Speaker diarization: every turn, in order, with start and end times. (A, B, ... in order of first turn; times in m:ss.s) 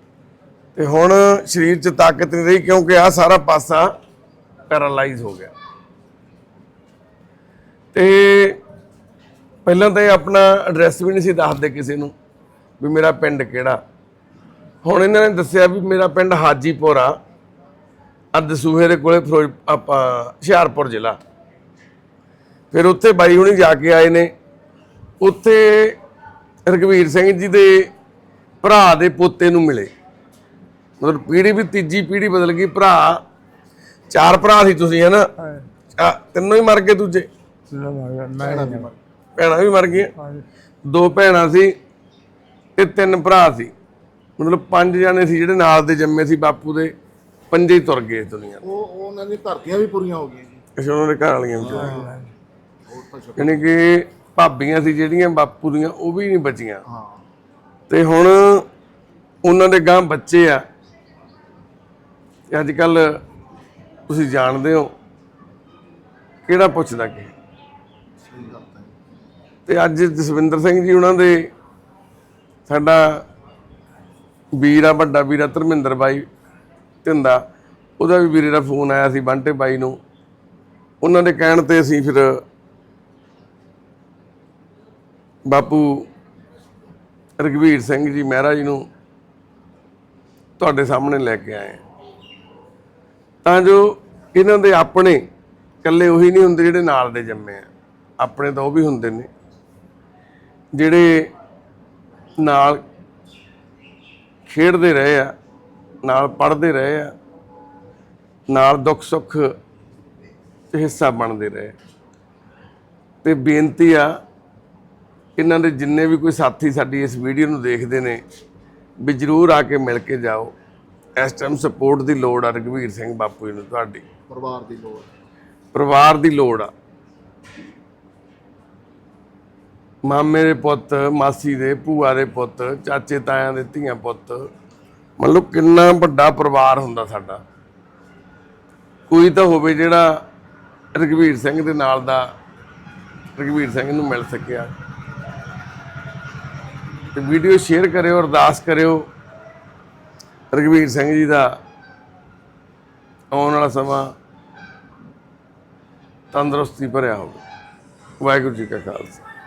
0:00.7-0:03.9 A
0:04.7-0:05.5 A
0:07.9-0:08.6 A
0:09.6-0:12.1 A
0:12.8-0:13.8 A
0:14.8-0:17.2 A
0:18.3-0:21.2 A
0:22.7-0:24.3 A
0:25.2-0:26.0 A
0:26.6-0:27.9 A
0:28.6-0:29.9 A
0:31.0-0:33.2 A
0:34.1-0:35.3 A
0:35.4-0:35.6 B
0:35.9-0:37.3 A
0:37.7-0:38.9 B
0:38.4-0:39.0 C
0:39.4-0:40.1 A
0:40.2-0:40.4 B
0:40.9-0:41.7 A
0:42.8-0:43.7 A
0:44.4-0:46.9 A
0:47.5-0:48.6 A
0:48.6-0:50.6 C
0:50.8-0:52.0 A
0:51.6-0:52.2 C
0:51.8-0:52.3 B
0:52.9-0:53.7 C
0:53.4-0:56.8 A
0:56.8-0:57.2 C
0:57.9-0:58.6 A
0:59.4-1:00.6 A
1:02.5-1:03.2 A
1:04.1-1:04.9 A
1:06.4-1:07.3 A
1:08.2-1:08.9 C
1:09.6-1:11.5 A
1:12.7-1:13.2 A
1:14.6-1:16.2 A
1:17.0-1:17.4 A
1:18.0-1:20.0 A
1:21.0-1:22.4 A
1:25.4-1:26.1 A
1:27.4-1:28.8 A
1:30.6-1:31.8 A
1:33.4-1:35.2 A
1:35.8-1:37.7 A
1:38.2-1:39.3 A
1:40.7-1:41.2 A
1:42.4-1:42.8 A
1:44.4-1:45.3 A
1:46.0-1:47.1 A
1:48.5-1:49.5 A
1:50.7-1:51.7 A
1:53.2-1:54.1 A
1:55.4-1:58.2 A
1:59.0-2:00.5 A
2:01.2-2:04.0 A
2:04.3-2:05.0 C
2:05.7-2:06.7 A
2:10.0-2:14.5 A
2:15.2-2:17.4 A
2:19.1-2:20.2 A
2:20.9-2:22.3 A
2:23.4-2:24.7 A
2:27.1-2:29.0 A
2:30.5-2:31.5 A
2:33.3-2:34.1 A
2:36.3-2:37.4 A
2:38.2-2:39.2 A